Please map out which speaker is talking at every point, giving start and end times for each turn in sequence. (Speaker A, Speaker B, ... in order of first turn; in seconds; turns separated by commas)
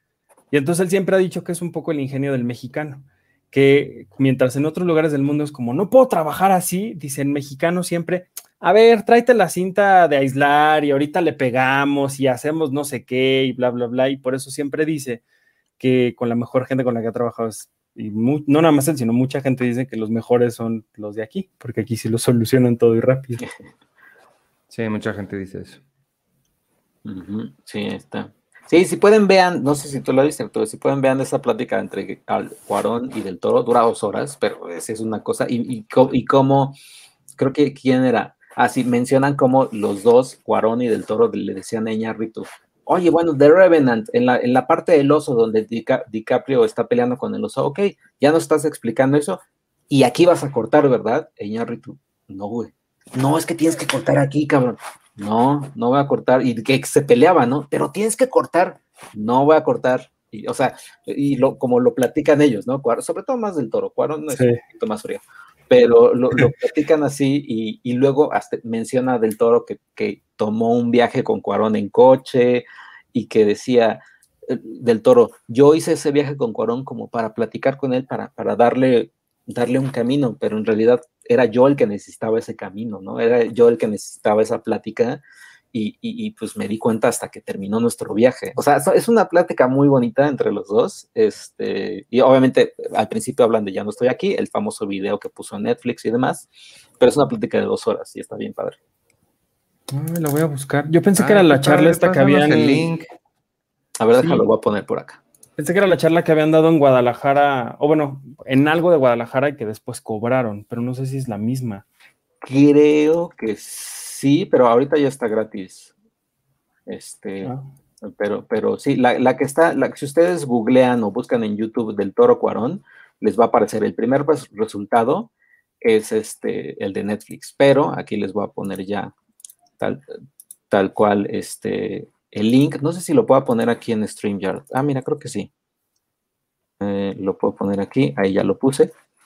Speaker A: 0.5-15.2, Speaker A: 15.8-23.4, Speaker B: 24.7-25.8, Speaker C: 27.1-36.8, Speaker C: 37.4-85.2, Speaker A: 64.3-64.6, Speaker C: 85.7-98.8, Speaker A: 99.9-102.9, Speaker B: 101.2-103.1, Speaker C: 104.0-105.2, Speaker A: 104.2-104.4, Speaker A: 105.6-111.8, Speaker C: 112.4-115.9, Speaker C: 116.9-125.3, Speaker C: 125.8-129.1, Speaker C: 129.8-130.0, Speaker C: 130.7-135.5, Speaker C: 136.8-138.9